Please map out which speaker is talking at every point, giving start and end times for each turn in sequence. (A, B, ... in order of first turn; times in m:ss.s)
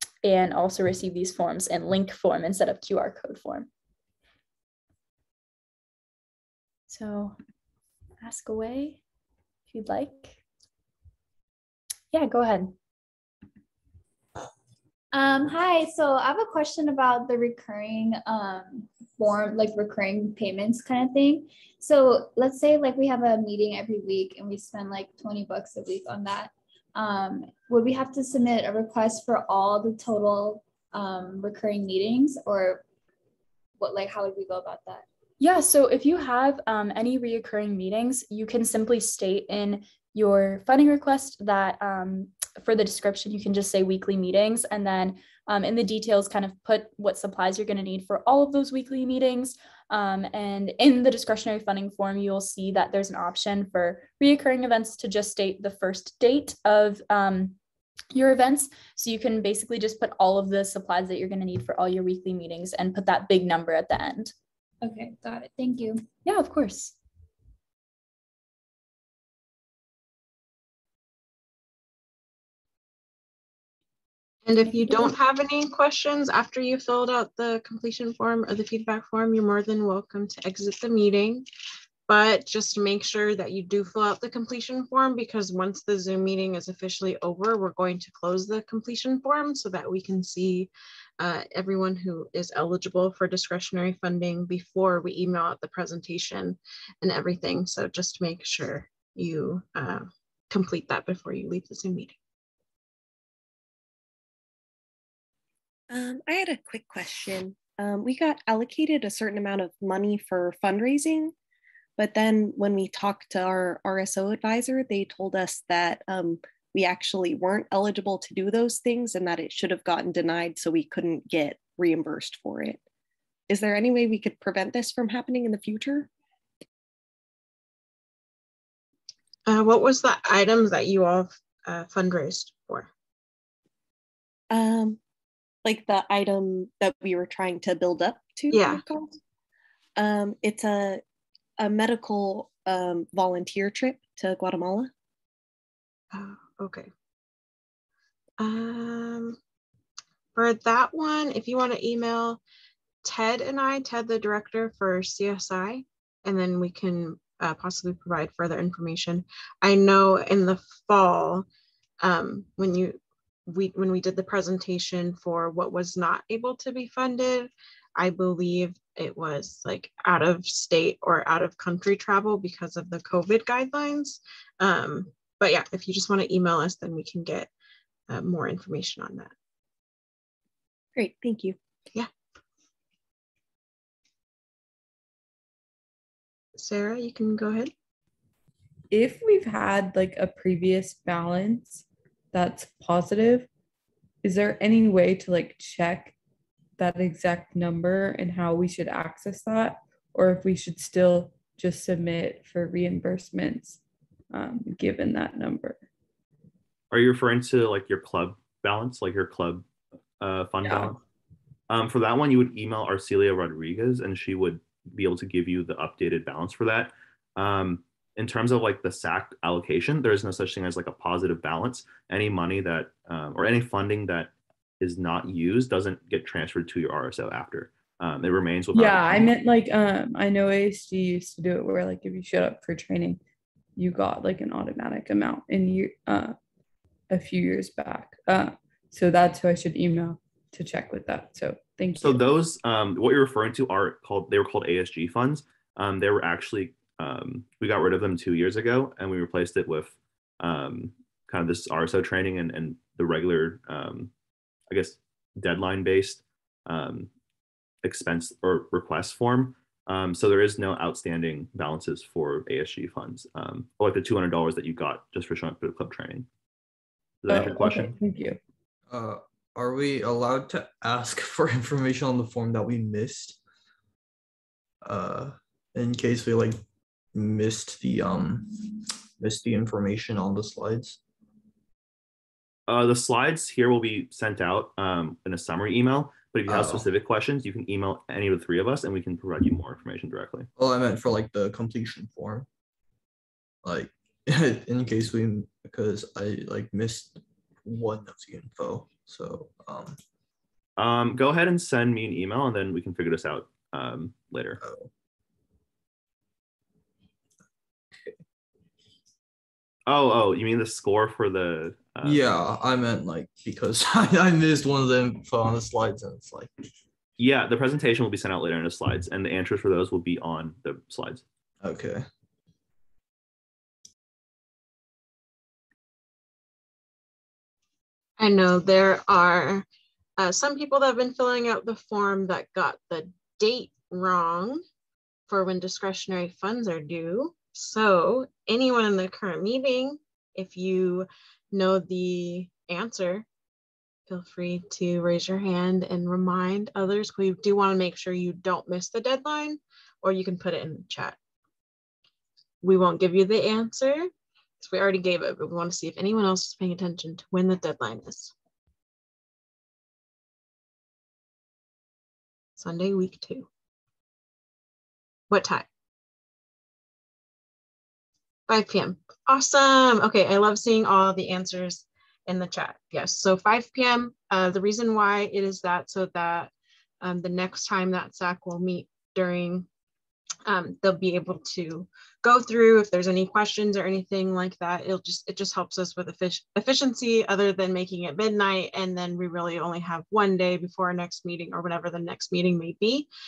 0:00.2-0:03.7 A
0:06.9-0:07.4 A
0:08.2-0:09.0 A
0:09.7-0:10.4 A
0:12.1-0:12.7 A
0:15.1-0:32.8 B
0:33.8-0:35.0 B
0:35.4-0:57.6 A
0:58.1-1:04.3 A
1:04.8-1:06.0 B
1:06.2-1:06.9 A
1:14.4-1:21.4 C
1:22.1-1:42.1 C
1:45.9-1:51.3 D
1:52.0-2:02.8 D
2:03.5-2:06.1 D
2:09.4-2:12.9 C
2:14.5-2:15.0 D
2:15.6-2:19.2 D
2:18.5-2:18.8 C
2:20.0-2:21.0 D
2:21.6-2:24.9 D
2:26.1-2:26.9 C
2:28.4-2:29.4 C
2:30.3-2:32.4 C
2:33.0-2:41.4 C
2:42.0-2:57.5 C
2:58.1-2:59.3 C
3:01.0-3:01.6 D
3:06.6-3:07.7 C
3:08.9-3:13.5 E
3:14.2-3:16.2 E
3:16.8-3:23.8 E
3:24.3-3:25.8 E
3:26.9-3:29.7 F
3:30.2-3:31.0 F
3:30.6-3:30.9 E
3:31.7-3:49.3 F
3:48.7-3:53.2 E
3:53.8-3:56.3 E
3:57.1-4:02.2 E
4:02.0-4:14.1 F
4:14.7-4:17.1 F
4:17.8-4:26.3 F
4:27.2-4:28.0 F
4:27.3-4:28.4 E
4:28.9-4:33.4 G
4:34.8-4:36.6 G
4:37.1-4:41.0 G
4:42.7-4:50.5 F
4:46.5-4:46.9 G
4:50.6-4:52.5 G
4:53.6-5:00.0 G
5:00.8-5:04.6 F
5:04.6-5:04.9 G
5:09.9-5:12.3 F
5:12.0-5:16.5 G
5:17.2-5:21.2 F
5:21.6-5:22.0 G
5:28.2-5:29.6 C
5:30.2-5:34.6 C
5:35.3-5:43.2 C
5:44.1-5:51.2 C
5:52.6-5:58.3 C
6:02.6-6:03.5 C
6:05.3-6:05.6 C
6:08.5-6:19.7 C
6:20.4-6:33.1 C